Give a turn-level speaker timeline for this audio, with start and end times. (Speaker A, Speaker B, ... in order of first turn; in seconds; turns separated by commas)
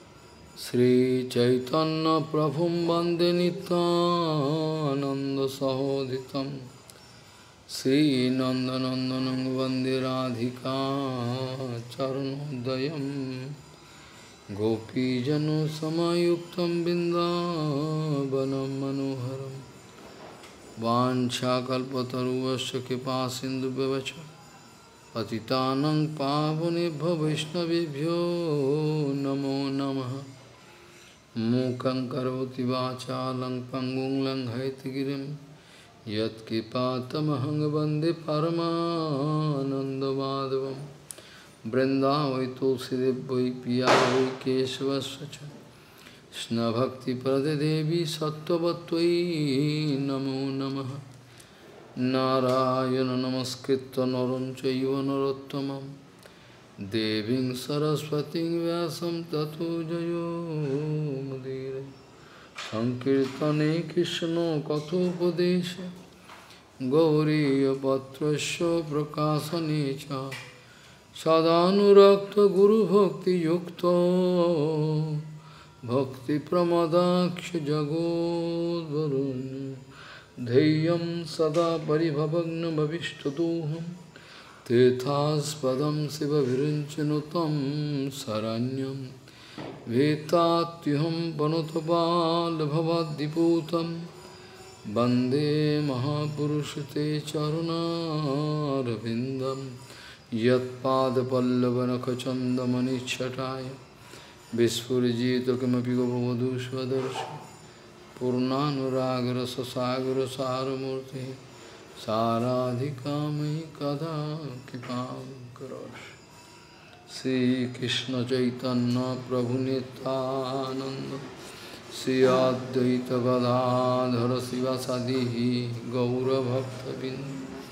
Speaker A: 0.6-6.7, Speaker A: 7.7-13.6, Speaker A: 14.5-19.6, Speaker A: 20.8-24.3, Speaker A: 25.1-30.3, Speaker A: 31.4-35.4, Speaker A: 36.1-40.9, Speaker A: 41.6-45.6, Speaker A: 46.3-51.0, Speaker A: 52.0-55.9, Speaker A: 56.8-61.9, Speaker A: 62.6-65.9, Speaker A: 66.8-70.4, Speaker A: 71.2-75.2, Speaker A: 75.8-79.8, Speaker A: 80.4-84.0, Speaker A: 84.6-89.1, Speaker A: 89.8-94.1, Speaker A: 94.8-99.8, Speaker A: 100.3-103.8, Speaker A: 104.5-107.4, Speaker A: 108.2-111.4, Speaker A: 112.0-116.2, Speaker A: 117.1-121.2, Speaker A: 121.9-127.4